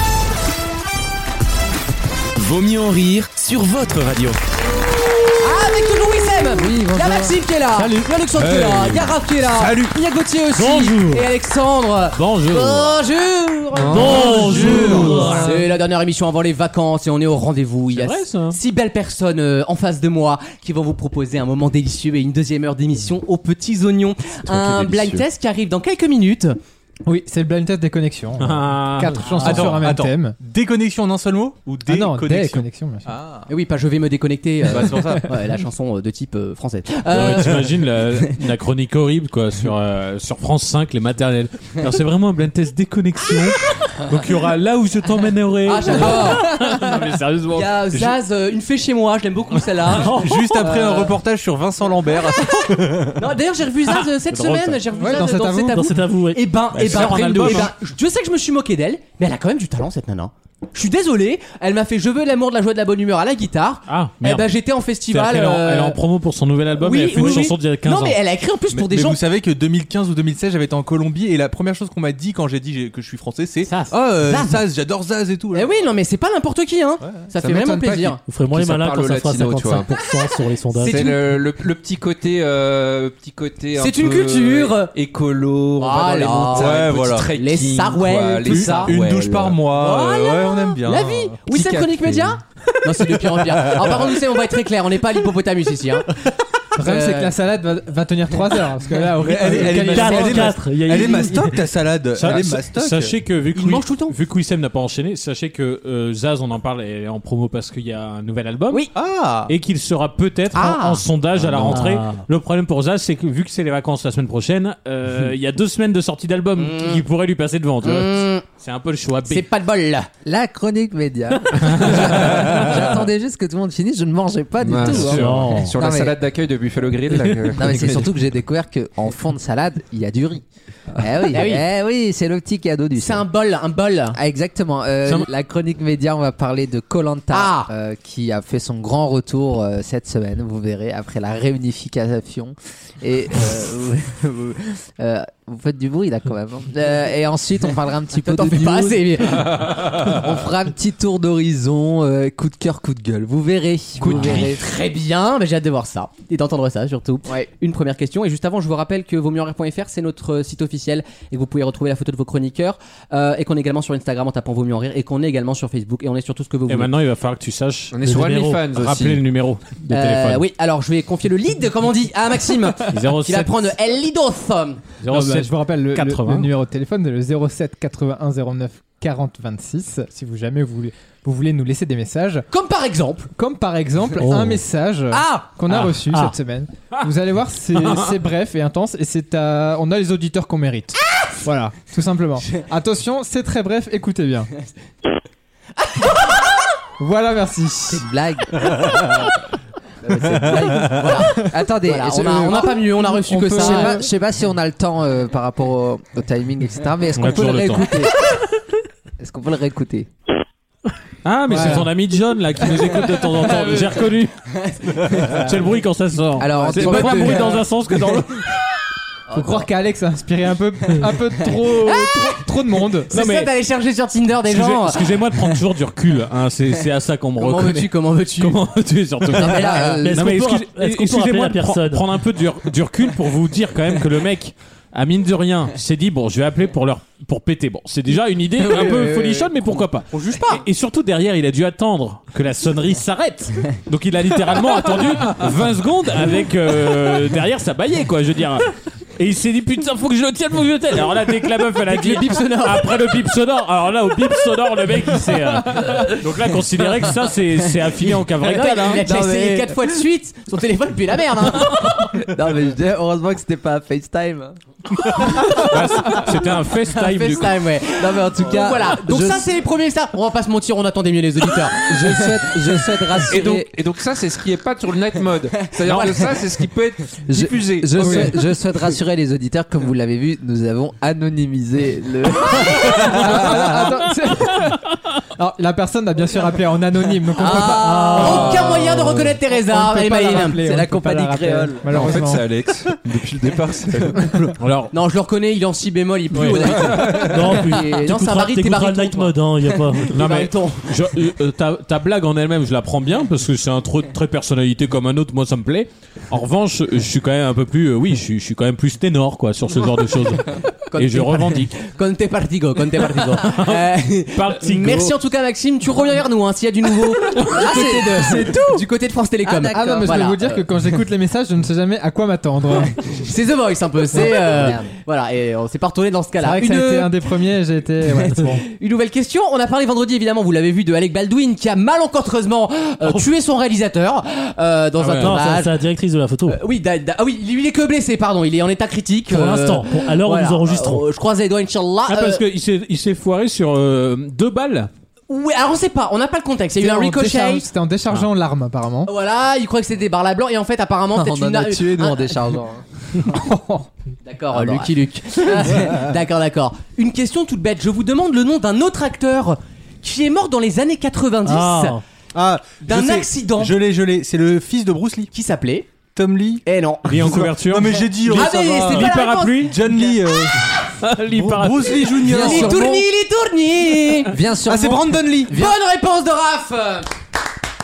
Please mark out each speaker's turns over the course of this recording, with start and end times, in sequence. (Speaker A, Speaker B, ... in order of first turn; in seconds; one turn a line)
Speaker A: 2.4-4.4
Speaker B: 5.4-26.6
Speaker C: 6.5-7.4
Speaker D: 7.8-8.1
Speaker E: 8.4-9.2
Speaker D: 9.4-9.9
Speaker F: 10.6-11.3
Speaker F: 12.2-13.0
Speaker E: 13.7-15.5
Speaker F: 13.9-15.5
Speaker G: 13.9-15.6
Speaker D: 14.3-15.2
Speaker F: 17.9-18.6
Speaker E: 24.3-25.2
Speaker H: 27.1-30.4
Speaker F: 28.4-29.9
Speaker D: 29.4-33.5
Speaker H: 31.8-33.1
Speaker B: 33.5-37.6
Speaker D: 34.6-35.3
Speaker F: 37.1-47.7
Speaker B: 45.7-46.9
Speaker B: 47.5-51.1
Speaker F: 50.0-50.5
Speaker D: 50.1-53.3
Speaker B: 53.2-66.0
Speaker F: 53.9-54.8
Speaker H: 55.0-55.9
Speaker G: 55.2-56.4
Speaker F: 56.7-57.7
Speaker D: 56.9-57.7
Speaker F: 63.9-64.5
Speaker F: 65.1-68.2
Speaker B: 66.8-69.2
Speaker D: 68.7-75.8
Speaker B: 74.3-74.6
Speaker B: 75.5-78.2
Speaker E: 77.4-79.9
Speaker G: 78.3-81.2
Speaker B: 80.8-81.1
Speaker E: 80.8-89.6
Speaker B: 83.8-84.9
Speaker B: 85.8-88.9
Speaker D: 86.5-87.3
Speaker D: 88.5-91.4
Speaker B: 89.7-96.1
Speaker E: 91.5-92.4
Speaker D: 93.4-94.2
Speaker H: 96.8-100.5
Speaker B: 96.8-97.3
Speaker D: 99.0-103.1
Speaker G: 99.5-101.5
Speaker F: 100.4-101.2
Speaker F: 102.2-108.9
Speaker E: 102.2-102.5
Speaker B: 103.5-104.1
Speaker D: 109.0-109.5
Speaker F: 109.5-119.5
Speaker B: 110.5-111.0
Speaker E: 111.3-111.8
Speaker G: 111.7-112.2
Speaker B: 116.6-117.0
Speaker B: 117.8-118.5
Speaker B: 119.3-120.1
Speaker C: 120.2-126.2
Speaker F: 121.8-122.5
Speaker E: 124.6-128.1
Speaker F: 124.8-125.7
Speaker G: 125.2-125.7
Speaker C: 127.5-133.3
Speaker B: 131.3-131.7
Speaker B: 133.0-134.2
Speaker C: 134.2-154.6
Speaker B: 137.3-137.7
Speaker B: 148.1-149.7
Speaker B: 154.0-166.9
Speaker F: 154.1-154.4
Speaker F: 166.7-170.4
Speaker E: 167.9-169.2
Speaker B: 169.9-174.8
Speaker F: 172.9-173.7
Speaker F: 175.0-176.5
Speaker H: 175.1-182.5
Speaker B: 182.5-183.3
Speaker H: 183.4-194.5
Speaker F: 184.2-184.6
Speaker B: 185.1-185.5
Speaker F: 185.7-186.3
Speaker F: 187.7-188.1
Speaker B: 195.8-196.7
Speaker H: 197.0-198.1
Speaker C: 197.9-199.3
Speaker C: 200.1-208.1
Speaker B: 200.1-204.1
Speaker F: 207.1-208.1
Speaker C: 209.2-210.1
Speaker F: 211.2-214.5
Speaker H: 211.5-211.9
Speaker B: 215.0-215.4
Speaker F: 215.1-218.5
Speaker C: 216.4-217.6
Speaker H: 219.3-223.1
Speaker C: 219.3-219.7
Speaker B: 221.8-222.4
Speaker B: 223.1-225.1
Speaker F: 223.1-223.5
Speaker F: 224.5-259.1
Speaker B: 227.4-228.6
Speaker C: 229.3-230.2
Speaker G: 229.9-232.1
Speaker D: 238.8-239.1
Speaker D: 240.2-240.6
Speaker B: 251.9-252.9
Speaker B: 258.4-261.9
Speaker C: 259.0-259.8
Speaker F: 261.7-262.1
Speaker C: 262.3-264.6
Speaker F: 265.1-267.6
Speaker B: 267.0-272.2
Speaker C: 268.0-269.5
Speaker C: 271.8-273.7
Speaker E: 273.3-278.4
Speaker B: 275.9-276.3
Speaker C: 277.2-283.8
Speaker H: 278.0-278.3
Speaker H: 282.8-284.8
Speaker H: 285.4-288.2
Speaker C: 287.4-289.0
Speaker B: 287.4-290.6
Speaker G: 287.8-288.8
Speaker H: 289.5-292.4
Speaker C: 290.3-292.0
Speaker E: 291.9-294.5
Speaker F: 294.6-294.9
Speaker B: 294.9-301.0
Speaker G: 296.4-300.1
Speaker F: 300.1-311.8
Speaker B: 310.9-320.6
Speaker F: 313.4-315.1
Speaker C: 317.4-318.7
Speaker C: 319.4-320.1
Speaker H: 319.7-323.0
Speaker B: 322.9-327.1
Speaker C: 324.1-324.9
Speaker H: 326.4-328.6
Speaker B: 328.6-335.8
Speaker F: 335.0-335.4
Speaker G: 335.1-336.6
Speaker B: 336.5-342.4
Speaker G: 339.3-341.1
Speaker F: 342.1-344.9
Speaker B: 345.3-347.7
Speaker H: 346.8-349.1
Speaker B: 349.1-352.4
Speaker C: 351.1-352.9
Speaker H: 353.3-353.9
Speaker B: 354.2-362.0
Speaker C: 354.5-354.9
Speaker C: 355.6-355.8
Speaker G: 361.5-362.0
Speaker D: 362.3-365.3
Speaker B: 362.9-363.8
Speaker B: 365.3-365.9
Speaker D: 366.1-370.7
Speaker B: 366.6-367.1
Speaker F: 367.1-369.8
Speaker B: 368.3-370.1
Speaker F: 371.0-372.4
Speaker D: 371.3-372.9
Speaker C: 372.2-373.1
Speaker B: 372.4-374.3
Speaker C: 374.3-375.8
Speaker D: 374.7-375.6
Speaker B: 375.5-377.1